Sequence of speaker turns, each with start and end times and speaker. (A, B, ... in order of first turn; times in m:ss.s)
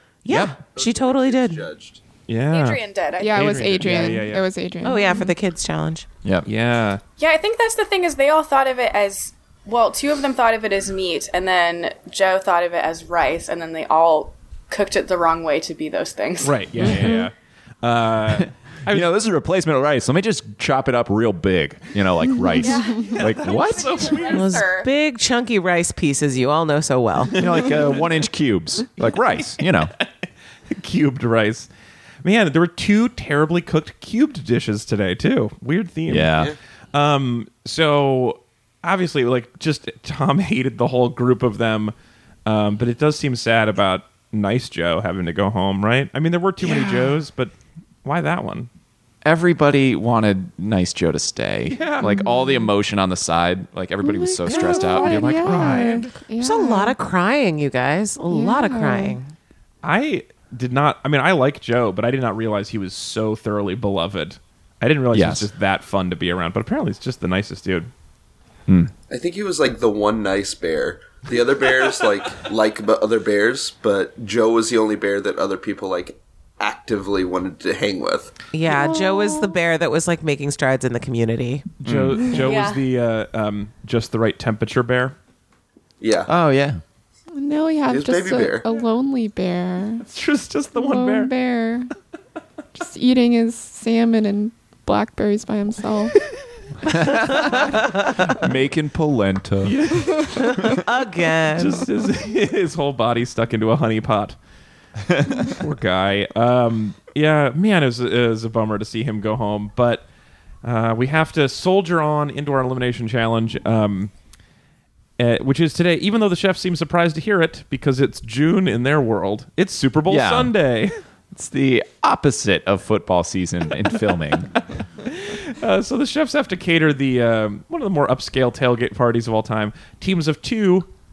0:00.2-0:01.7 A
0:00.3-0:00.6 B
0:00.6-0:02.0 C
0:02.3-0:04.5 D
0:02.5-0:04.1 E
0:03.2-0:05.3 F
0:04.8-0:06.1 A
0:06.4-0:07.0 D
0:07.2-0:16.6 E
0:16.4-0:19.1 D
0:16.8-0:17.2 B
0:16.9-0:17.3 F
0:18.3-0:24.2 B
0:22.5-0:23.1 F
0:22.6-0:24.9 E
0:23.2-0:24.6 D
0:24.3-0:27.4 A
0:27.3-0:28.0 D
0:27.4-0:29.9 B
0:29.4-0:30.0 D
0:30.7-0:31.7 D
0:32.2-0:41.9 D
0:36.1-0:36.6 B
0:42.5-0:47.5 D
0:46.6-0:47.2 B
0:48.0-0:48.7 D
0:49.2-0:55.8 B
0:51.7-0:52.1 D
0:52.0-0:52.7 F
0:54.0-0:57.0 F
0:54.5-0:56.1 D
0:56.4-0:59.3 A
0:58.3-0:59.2 F
0:59.8-1:07.9 D
1:05.1-1:05.5 B
1:09.1-1:18.3 C
1:18.5-1:21.7 A
1:21.8-1:25.2 D
1:21.8-1:22.5 B
1:22.4-1:22.8 E
1:26.0-1:26.3 C
1:26.3-1:26.8 B
1:27.3-1:30.0 F
1:27.9-1:28.6 C
1:30.0-1:31.3 D
1:30.7-1:31.9 F
1:32.8-1:36.2 F
1:36.8-1:40.0 B
1:39.6-1:40.8 D
1:40.4-1:41.9 A
1:41.6-1:44.4 D
1:45.1-1:45.4 B
1:45.3-1:50.0 D
1:50.6-1:54.1 D
1:55.2-2:00.9 D
2:00.1-2:00.6 B
2:01.3-2:04.5 B
2:05.0-2:10.9 D